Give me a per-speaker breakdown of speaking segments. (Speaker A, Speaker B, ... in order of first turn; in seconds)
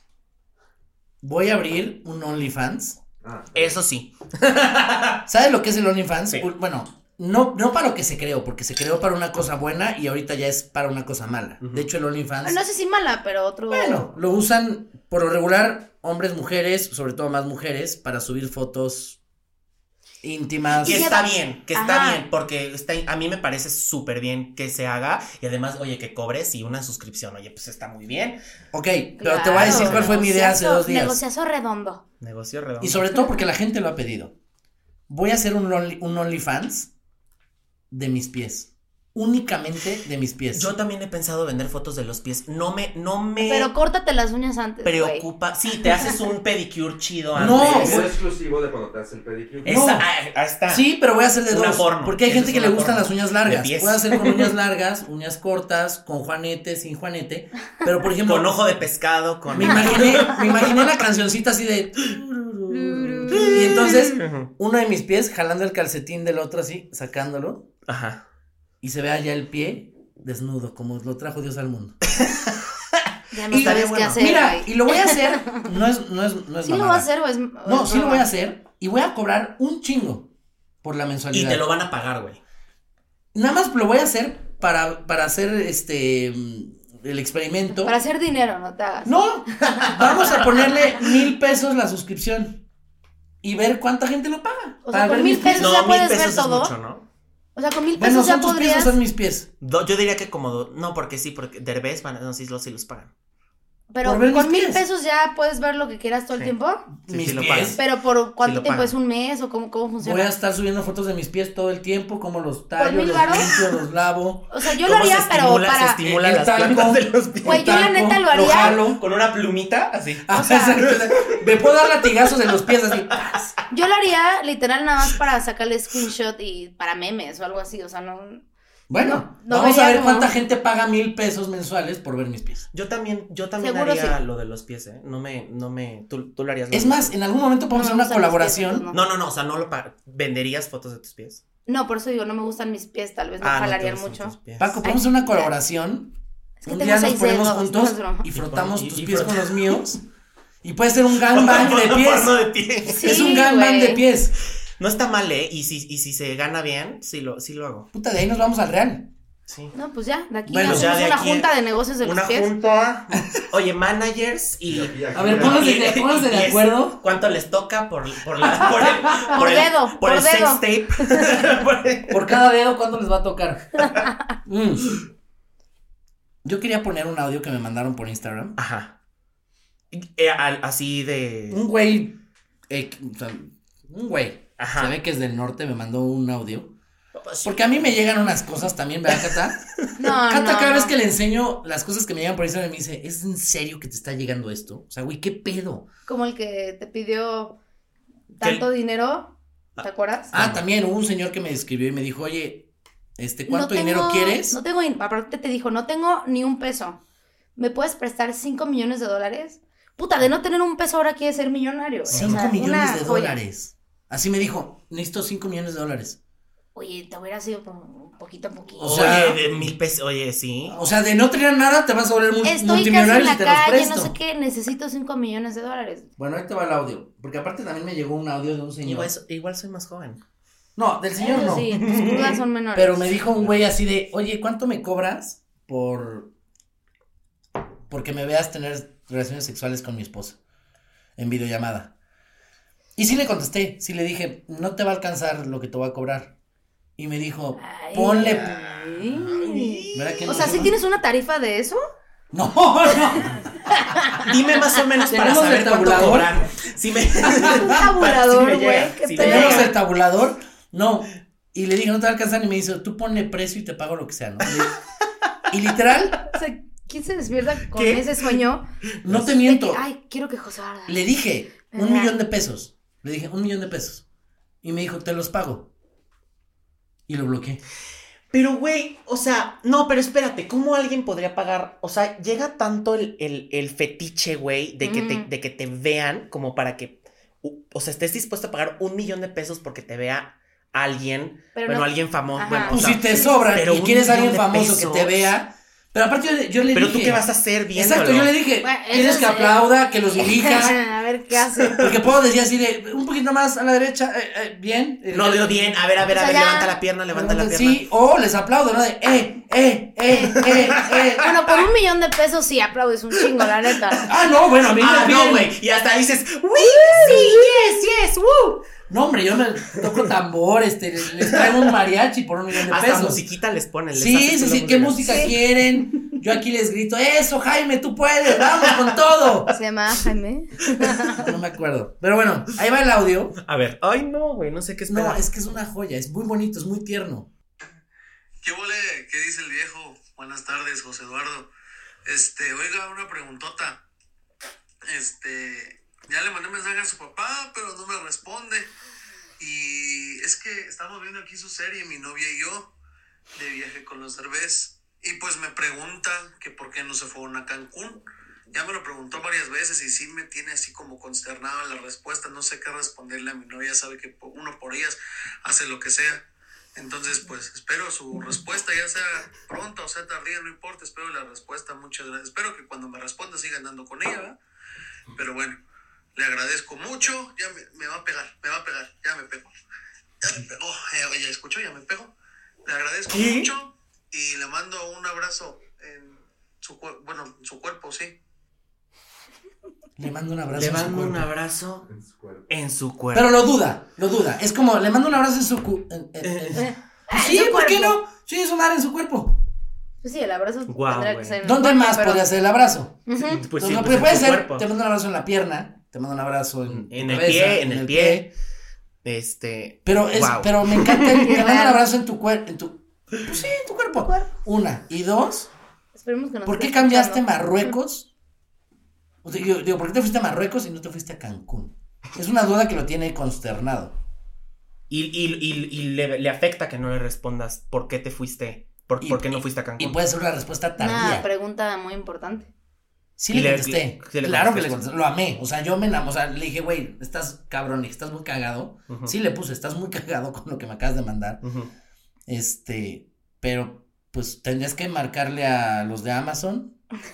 Speaker A: 1.2-3.0, 5.3-12.6, 13.7-19.2, 20.2-21.1, 28.7-31.2, 32.8-34.3, 35.1-36.9, 37.9-40.7, 47.4-48.1, 49.6-50.1, 50.7-58.6, 59.5-67.7, 68.8-72.0, 73.5-77.1, 77.6-80.3, 80.8-81.7, 83.3-87.9, 89.0-92.6, 93.4-95.8, 98.0-99.5, 104.0-104.8, 107.1-107.8, 110.0-114.5, 116.0-119.0, 120.2-123.5, 128.9-132.7, 136.7-138.8, 144.6-150.0, 150.6-152.4, 152.9-154.4, 157.9-159.1, 160.5-161.1, 165.1-167.0, 168.4-169.4, 172.1-173.9, 174.4-175.0, 176.4-178.6, 181.5-182.2, 182.7-186.7, 187.4-195.9, 200.3-204.6, 212.1-216.2, 218.8-219.7, 220.7-224.2, 226.2-229.1, 230.8-231.9, 232.8-236.3, 237.9-240.4, 241.2-241.9, 243.0-246.3, 247.0-248.5, 249.9-250.7, 252.3-253.4, 255.1-256.5, 257.2-257.7, 259.2-264.7, 265.5-266.2, 269.0-269.8, 270.9-274.0, 274.6-275.7, 277.1-277.6, 292.7-300.8, 301.8-305.8, 307.1-311.3, 314.1-315.5, 316.9-317.6, 318.9-323.2, 323.9-329.5, 331.1-333.4, 334.9-337.3, 390.0-391.3, 393.1-399.4, 401.4-408.3, 409.9-415.5, 416.4-418.1, 419.2-424.0, 429.0-431.3, 433.2-441.4, 442.3-446.8
Speaker B: 3.2-3.8, 47.4-49.7, 164.7-165.7, 391.9-392.5
Speaker C: 3.5-5.2, 11.6-11.9, 20.8-28.4, 29.5-30.1, 32.2-33.0, 40.5-43.7, 44.9-48.1, 49.6-50.9, 51.5-54.5, 58.2-60.9, 63.3-64.5, 67.9-68.2, 72.1-74.2, 81.3-82.4, 95.5-97.0, 99.6-103.1, 107.1-107.8, 108.4-108.9, 113.2-113.6, 114.8-117.8, 118.4-120.3, 120.8-122.1, 123.1-123.4, 132.7-137.1, 138.9-141.4, 143.4-144.8, 148.3-149.9, 151.3-153.2, 154.8-157.9, 159.5-159.7, 160.6-172.3, 178.6-178.9, 179.9-181.6, 184.6-184.9, 187.2-187.9, 189.1-189.9, 199.8-200.6, 212.1-212.4, 218.8-220.8, 228.8-230.2, 231.7-232.4, 248.2-250.7, 254.2-259.7, 267.7-268.4, 269.0-269.3, 278.3-295.3, 296.7-298.3, 301.6-301.9, 305.1-307.8, 310.4-311.1, 314.7-318.6, 321.3-321.6, 322.6-325.4, 333.4-335.2, 383.1-383.5, 390.5-391.9, 392.5-393.4, 396.2-396.6, 400.7-401.4, 403.2-404.7, 406.7-408.3, 409.0-411.3, 424.9-430.0, 433.3-434.8, 438.9-439.1, 441.4-441.7
Speaker D: 12.4-14.1, 20.8-22.2, 29.2-32.0, 43.4-45.2, 62.7-63.6, 73.3-75.6, 76.6-78.3, 87.8-90.8, 94.8-96.7, 97.6-99.0, 103.9-106.9, 107.8-110.3, 112.8-113.5, 114.5-116.0, 117.5-118.8, 120.3-120.8, 123.7-128.4, 129.0-130.3, 133.6-134.2, 137.7-139.0, 141.7-145.5, 146.6-148.3, 152.9-154.0, 159.7-162.5, 169.3-171.5, 190.0-190.9, 196.1-197.6, 198.4-200.3, 203.5-207.0, 207.6-213.4, 216.8-219.1, 222.4-226.1, 231.2-233.1, 247.6-251.8, 253.7-254.3, 257.5-259.7, 266.3-268.6, 269.4-271.1, 271.7-272.2, 284.8-285.3, 291.6-293.5, 298.6-299.6, 300.2-301.8, 306.1-306.7, 310.1-310.4, 311.2-314.1, 329.5-331.2, 396.6-398.0, 400.0-402.2, 403.1-403.4, 411.2-411.8, 414.0-414.3, 415.9-417.7, 430.8-432.5
Speaker E: 338.4-341.5, 342.1-343.8, 344.9-348.7, 349.4-352.7, 353.3-366.2, 366.8-374.4, 375.1-375.6, 376.1-379.5, 380.2-382.1, 382.6-388.2